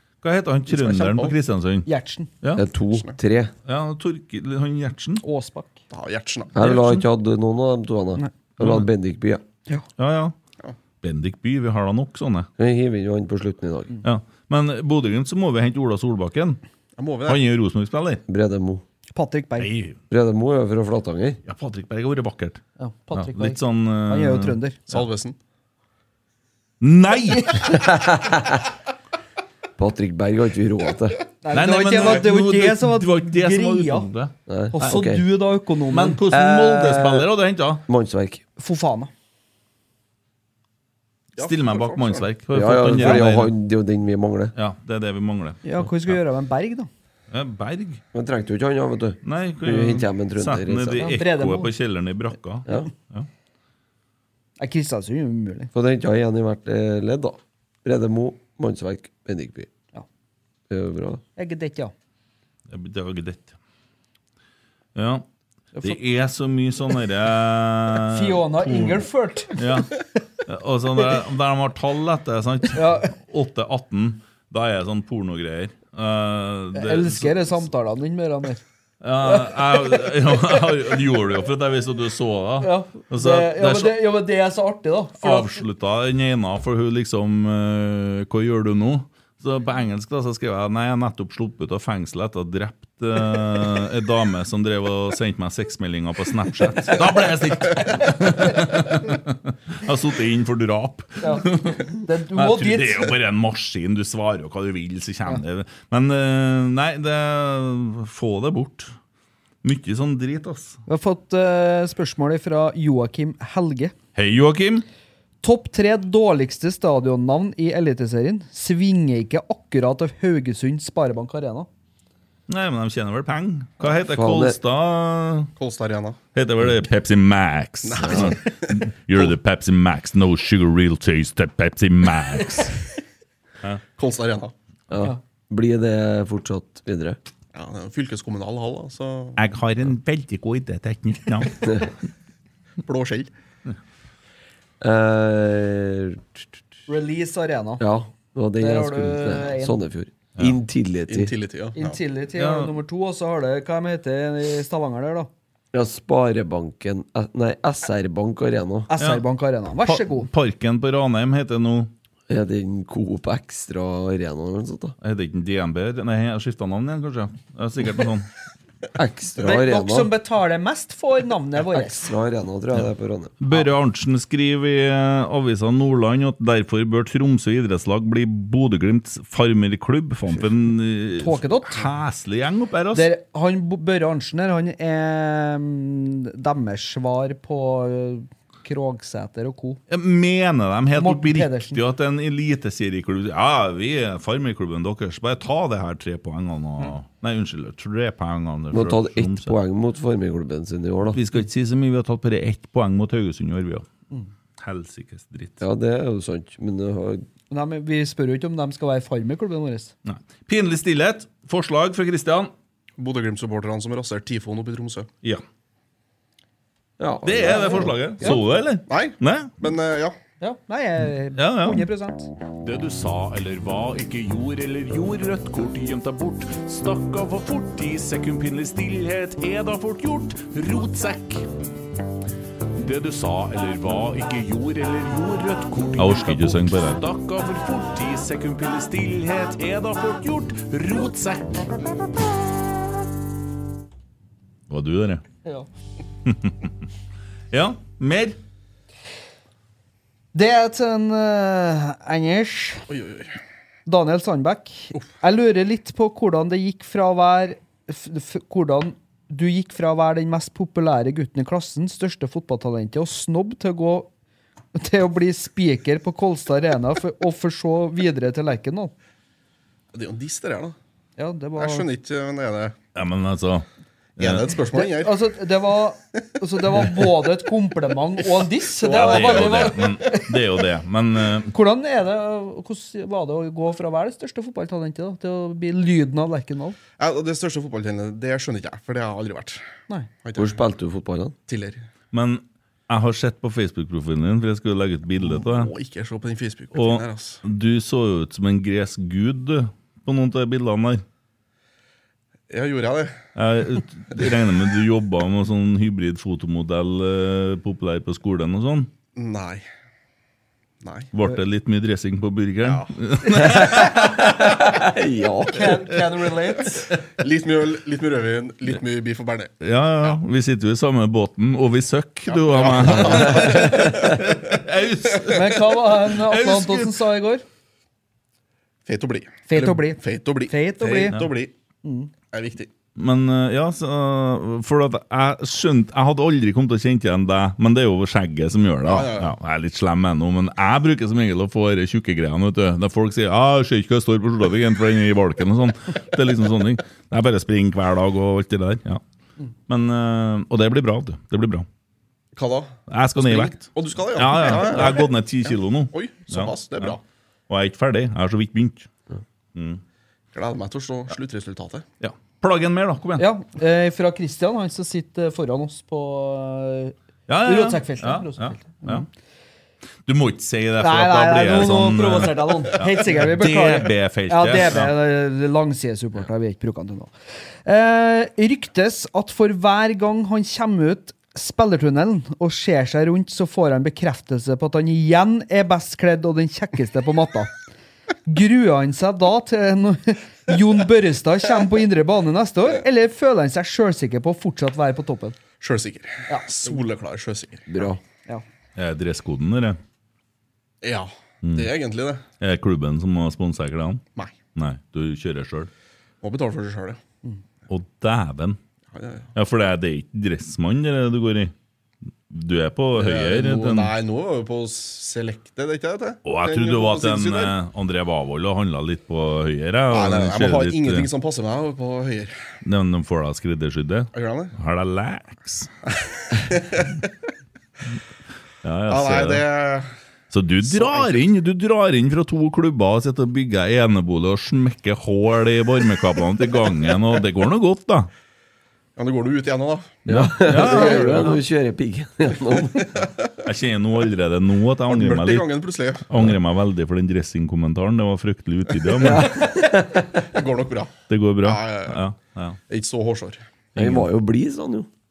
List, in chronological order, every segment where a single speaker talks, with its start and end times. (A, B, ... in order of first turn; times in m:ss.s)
0:00.2-0:01.9 A
0:00.7-0:01.4 B
0:01.9-0:02.3 C
0:02.6-0:03.5 D
0:03.6-0:05.2 A
0:05.2-0:05.8 C
0:05.9-0:06.6 B
0:06.6-0:09.4 D
0:06.6-0:07.0 A
0:08.6-0:08.9 A
0:10.0-0:10.4 A
0:11.0-0:12.5 A
0:12.6-0:14.0 D
0:14.0-0:16.6 A
0:17.0-0:17.4 B
0:17.3-0:18.2 A
0:18.3-0:18.8 D
0:19.1-0:19.7 C
0:19.6-0:20.0 A
0:20.1-0:21.4 D
0:21.5-0:22.6 A
0:22.8-0:24.8 C
0:23.1-0:25.0 A
0:24.9-0:25.4 B
0:26.8-0:27.9 A
0:27.3-0:27.9 C
0:27.9-0:28.6 D
0:29.8-0:31.2 D
0:31.4-0:34.1 C
0:31.5-0:35.0 A
0:34.5-0:35.2 D
0:34.7-0:36.2 C
0:35.9-0:37.8 A
0:36.3-0:37.3 D
0:37.9-0:38.4 D
0:38.6-0:39.1 C
0:41.4-0:42.3 B
0:41.4-0:43.5 A
0:42.5-0:44.5 D
0:44.6-0:46.2 A
0:45.6-0:46.9 C
0:47.3-0:48.0 A
0:48.1-0:51.2 D
0:49.2-0:53.3 A
0:51.0-0:51.7 C
0:54.6-0:55.7 C
0:55.7-0:59.7 D
1:00.7-1:01.2 D
1:01.4-1:01.9 C
1:02.7-1:03.6 A
1:05.0-1:05.2 A
1:05.8-1:17.6 A
1:08.1-1:09.6 C
1:12.8-1:13.1 C
1:16.7-1:18.6 C
1:19.0-1:24.0 A
1:19.2-1:20.1 C
1:22.6-1:25.6 C
1:25.2-1:48.9 A
1:41.2-1:43.2 C
1:49.6-1:50.8 A
1:50.9-1:53.9 C
1:54.2-1:54.8 A
1:55.4-2:01.7 C
2:02.5-2:05.5 A
2:04.1-2:04.6 D
2:05.6-2:06.2 B
2:06.4-2:12.8 A
2:07.8-2:08.8 B
2:08.1-2:08.3 D
2:14.0-2:14.5 B
2:14.9-2:17.2 D
2:17.5-2:19.4 B
2:19.4-2:21.8 A
2:22.8-2:23.3 B
2:24.8-2:26.5 D
2:26.9-2:27.8 C
2:27.8-2:31.3 D
2:28.6-2:29.8 C
2:31.1-2:32.0 B
2:31.8-2:35.3 C
2:32.4-2:32.7 A
2:35.7-2:38.9 D
2:38.9-2:40.3 C
2:39.0-2:39.2 A
2:39.8-2:41.9 A
2:42.3-2:45.0 D
2:45.0-2:48.3 A
2:49.0-2:50.1 D
2:49.4-2:52.1 C
2:51.7-2:53.3 D
2:53.4-3:03.1 A
3:01.2-3:01.9 C
3:02.9-3:09.8 C
3:09.9-3:19.6 A
3:11.0-3:11.8 C
3:18.7-3:21.2 D
3:21.1-3:23.9 A
3:24.6-3:25.6 A
3:25.6-3:27.3 D
3:27.5-3:29.9 C
3:30.0-3:32.5 A
3:33.0-3:35.1 B
3:37.0-3:38.1 D
3:37.2-3:39.6 A
3:37.4-3:38.4 C
3:38.9-3:40.2 B
3:40.4-3:42.3 C
3:41.4-3:41.9 A
3:42.6-3:51.5 E
3:52.8-4:01.8 E
3:56.0-3:57.0 A
4:04.7-4:05.2 A
4:06.3-4:06.7 A
4:07.5-4:08.4 A
4:10.3-4:12.9 C
4:12.9-4:13.4 B
4:13.9-4:24.1 C
4:24.7-4:28.9 C
4:29.9-4:30.8 B
4:31.2-4:31.9 C
4:31.6-4:32.8 B
4:33.0-4:33.7 A
4:34.2-4:34.5 A
4:34.2-4:35.2 B
4:34.7-4:40.4 C
4:38.8-4:39.8 B
4:38.8-4:41.5 A
4:41.5-4:46.8 C
4:47.0-4:49.6 B
4:50.2-4:50.6 B
4:50.4-4:51.4 D
4:51.5-4:51.9 B
4:52.1-4:55.7 A
4:55.2-4:57.4 B
4:56.7-5:01.0 A
5:02.5-5:03.2 B
5:03.4-5:08.9 A
5:09.2-5:09.6 B
5:10.8-5:11.1 B
5:11.1-5:14.5 A
5:12.6-5:13.8 B
5:13.9-5:15.8 D
5:15.5-5:16.9 C
5:17.1-5:19.5 B
5:19.6-5:27.0 A
5:22.3-5:24.4 B
5:25.2-5:27.4 C
5:28.9-5:31.5 B
5:29.5-5:31.2 C
5:31.8-5:32.1 C
5:32.3-5:32.7 B
5:33.0-5:49.0 A
5:38.9-5:39.3 B
5:49.7-5:51.7 A
5:52.4-5:57.0 B
5:52.9-5:57.0 A
5:57.5-5:58.9 A
5:59.6-5:59.8 A
6:00.3-6:01.8 B
6:02.0-6:03.3 A
6:03.2-6:09.1 C
6:07.3-6:09.1 A
6:10.0-6:14.9 A
6:10.8-6:17.1 C
6:17.6-6:27.5 C
6:28.3-6:35.4 C
6:35.6-6:37.9 B
6:36.3-6:36.8 C
6:37.7-6:38.0 D
6:38.8-6:39.8 A
6:40.8-6:42.2 B
6:41.4-6:41.7 A
6:42.4-6:44.0 A
6:44.6-6:45.7 A
6:46.2-6:47.0 B
6:47.7-6:48.6 A
6:48.9-6:49.3 B
6:49.4-6:51.5 A
6:52.3-6:53.9 A
6:53.0-6:57.6 B
6:56.2-7:01.1 A
6:59.9-7:02.4 B
7:02.6-7:05.7 A
7:04.1-7:04.5 B
7:06.3-7:07.0 B
7:08.6-7:09.4 A
7:08.9-7:09.9 B
7:10.3-7:18.1 A
7:10.6-7:11.2 B
7:19.0-7:21.4 B
7:20.1-7:21.4 A
7:20.1-7:22.9 D
7:23.4-7:25.5 A
7:24.9-7:26.1 B
7:26.0-7:29.4 A
7:28.9-7:30.3 D
7:30.2-7:32.0 B
7:31.1-7:32.6 A
7:32.7-7:33.4 B
7:33.8-7:34.1 A
7:33.8-7:34.9 D